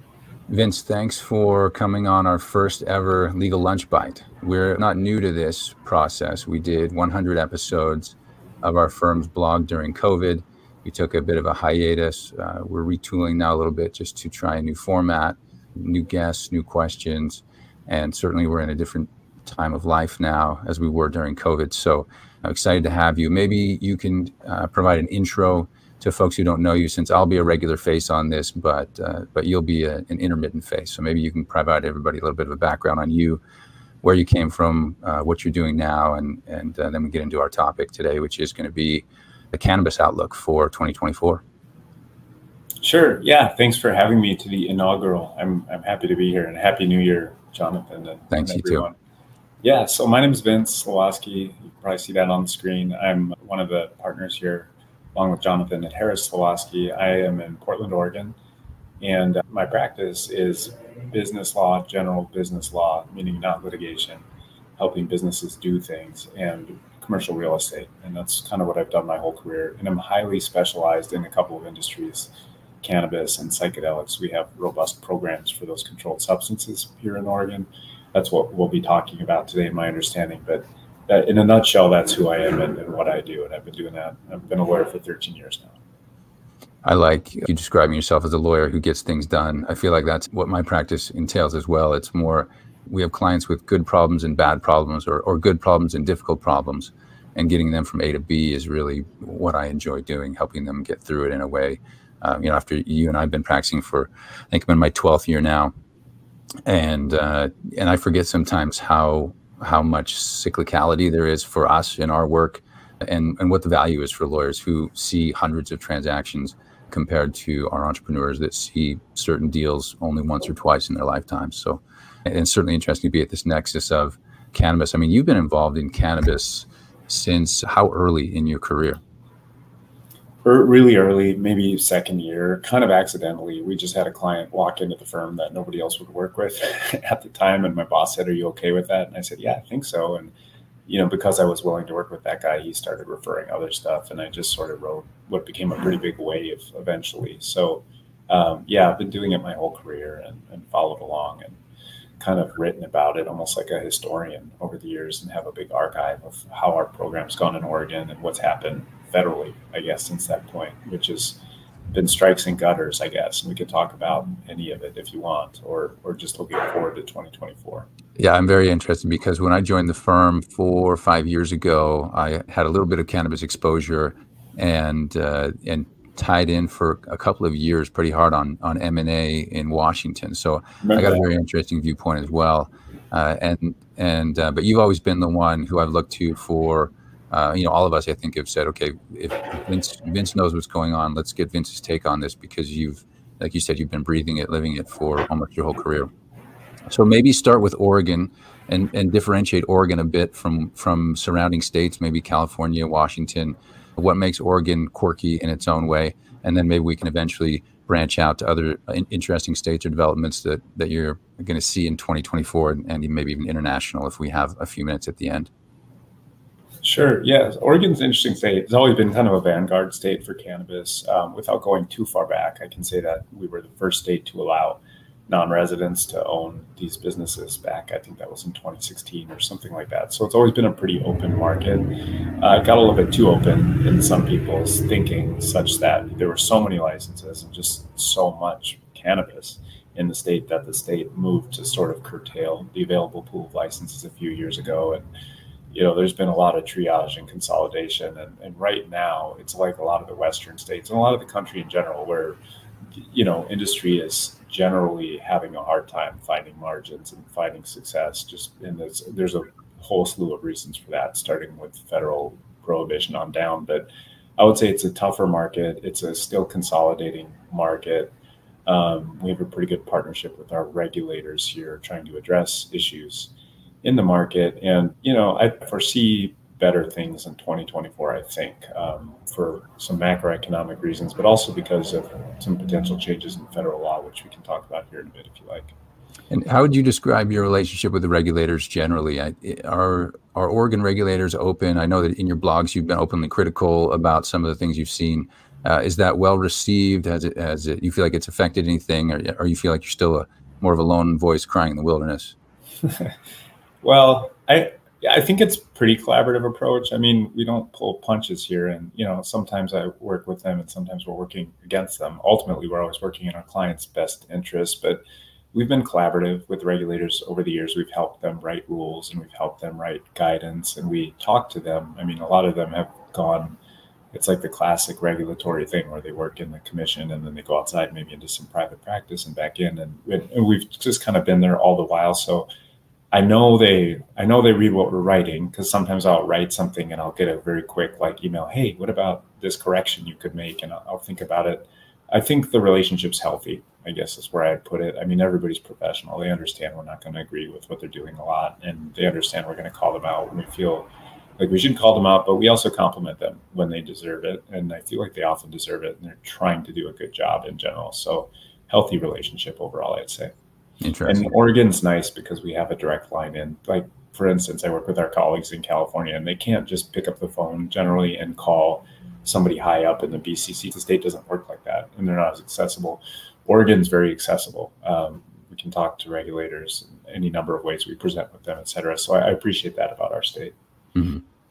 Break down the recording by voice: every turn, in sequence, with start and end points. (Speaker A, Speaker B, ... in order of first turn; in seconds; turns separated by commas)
Speaker A: 0.5-33.4, Speaker A: 34.0-41.4, Speaker B: 42.8-49.0, Speaker A: 48.3-48.9, Speaker B: 49.6-58.4, Speaker B: 59.0-64.2, Speaker B: 64.8-72.3, Speaker B: 72.8-85.8, Speaker A: 86.8-105.7, Speaker A: 106.7-129.0, Speaker B: 130.4-140.3, Speaker B: 140.9-151.6, Speaker B: 152.2-161.4, Speaker B: 161.9-167.9, Speaker A: 168.2-196.1, Speaker B: 180.8-181.2, Speaker A: 196.9-215.5, Speaker B: 216.8-231.9, Speaker B: 232.4-245.0, Speaker B: 245.7-252.4, Speaker B: 253.0-268.1, Speaker B: 268.7-273.3, Speaker B: 273.8-285.8, Speaker A: 286.3-302.4, Speaker B: 303.8-315.0, Speaker B: 315.5-323.6, Speaker B: 324.1-332.5, Speaker B: 333.1-360.3, Speaker A: 360.8-361.3, Speaker B: 361.1-380.5, Speaker A: 380.9-381.2